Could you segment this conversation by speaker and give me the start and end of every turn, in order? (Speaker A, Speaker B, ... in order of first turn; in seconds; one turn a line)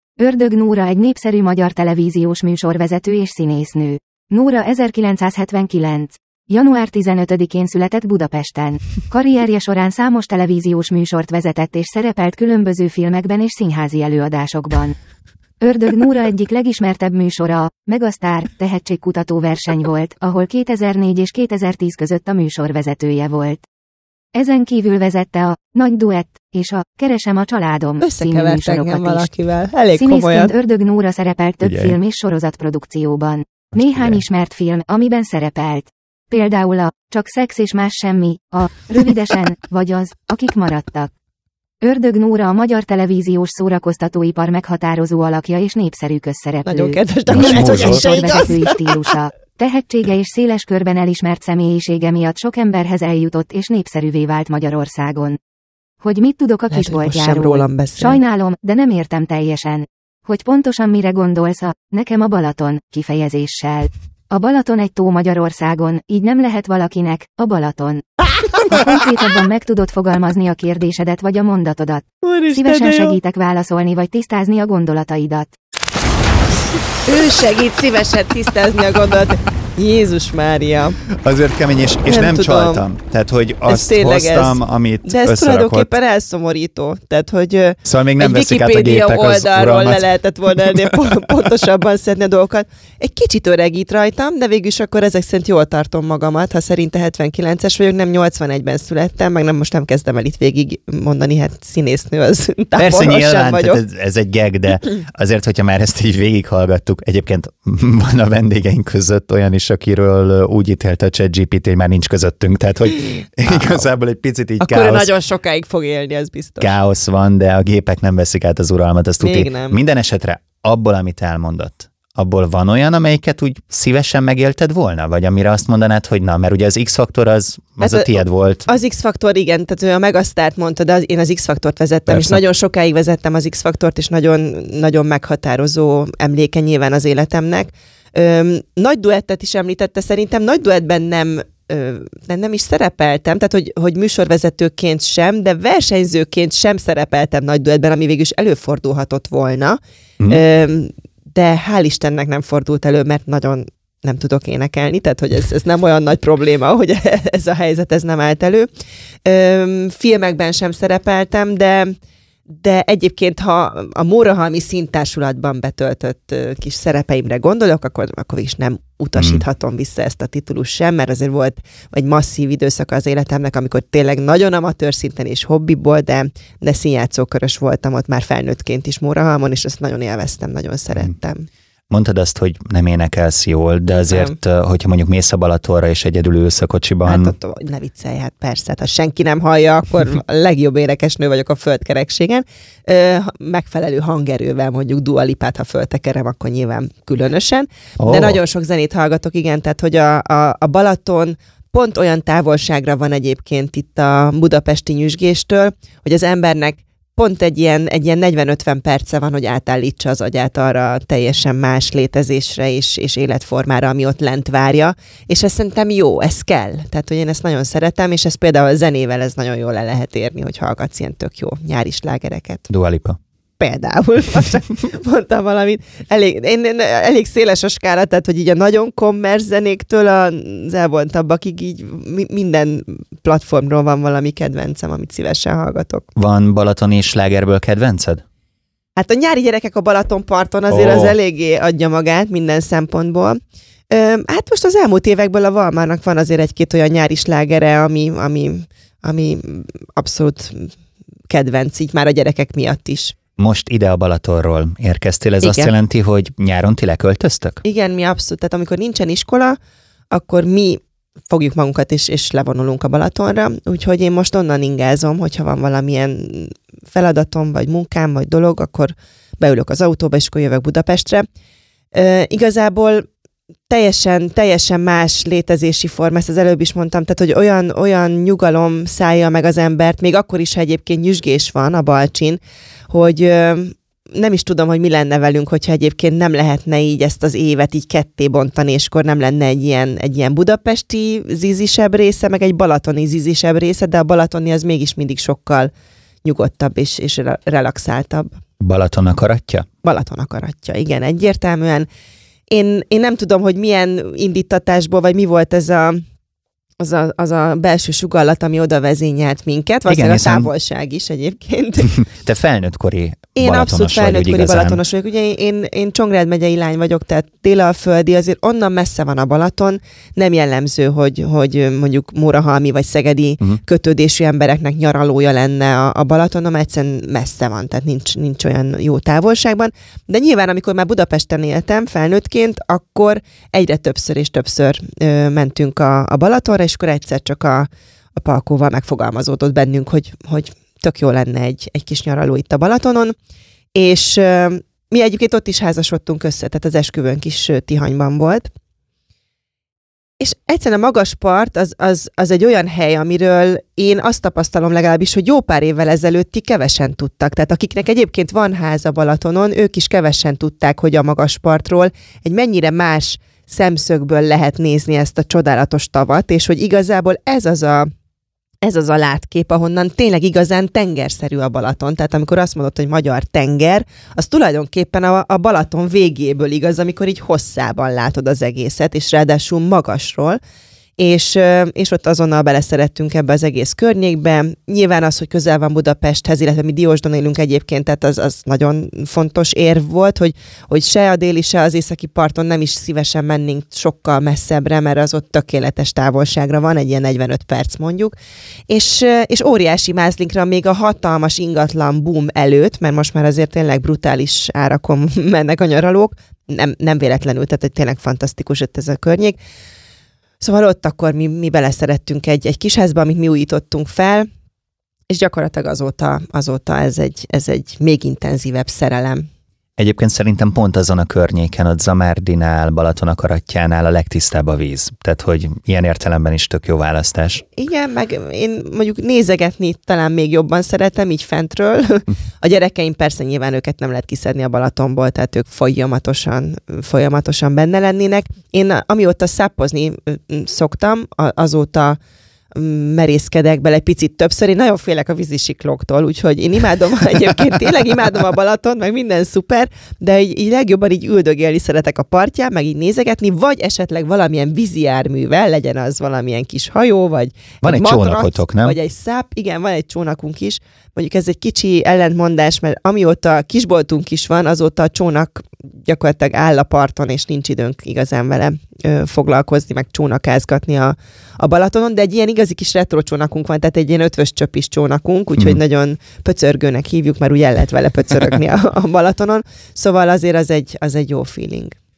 Speaker A: 0.2-14.9
Speaker A: 15.6-23.6
Speaker A: 24.4-29.3
Speaker B: 28.0-30.5
Speaker A: 30.0-41.1
Speaker C: 31.6-32.0
Speaker C: 33.8-34.2
Speaker A: 41.8-55.4
Speaker B: 46.7-49.1
Speaker C: 47.3-48.0
Speaker A: 56.0-75.5
Speaker B: 56.7-58.2
Speaker B: 72.2-73.2
Speaker B: 77.1-81.0
Speaker C: 81.2-85.9
Speaker B: 82.1-82.8
Speaker B: 83.7-103.8
Speaker C: 87.8-91.0
Speaker C: 102.8-115.1
Speaker B: 113.5-113.9
Speaker B: 114.6-116.7
Speaker C: 116.6-128.7
Speaker B: 119.2-119.8
Speaker B: 127.8-158.7
Speaker C: 132.1-132.4
Speaker B: 159.2-161.9
Speaker B: 162.5-181.5
Speaker C: 169.2-169.4
Speaker C: 181.9-187.3
Speaker B: 184.1-184.4
Speaker B: 187.1-222.7
Speaker C: 198.0-198.4
Speaker C: 222.7-223.2
Speaker B: 223.6-236.1
Speaker C: 236.2-238.2
Speaker B: 239.0-243.4
Speaker C: 240.7-241.2
Speaker B: 243.9-250.7
Speaker B: 251.3-253.2
Speaker C: 253.4-257.6
Speaker B: 255.4-255.7
Speaker B: 257.6-259.6
Speaker B: 260.1-271.3
Speaker B: 271.9-273.1
Speaker B: 273.7-295.7
Speaker B: 296.2-298.3
Speaker C: 298.6-299.7
Speaker B: 299.8-301.9
Speaker B: 302.5-306.0
Speaker B: 306.8-312.0
Speaker C: 309.9-310.5
Speaker C: 312.0-314.8
Speaker B: 313.4-343.1
Speaker B: 343.8-348.5
Speaker B: 350.2-367.9
Speaker B: 368.6-380.4
Speaker B: 381.0-398.1
Speaker B: 398.7-409.4
Speaker B: 410.4-414.3
Speaker B: 415.1-419.3
Speaker C: 419.8-427.4
Speaker B: 427.6-442.0
Speaker B: 442.5-481.7
Speaker C: 457.6-458.8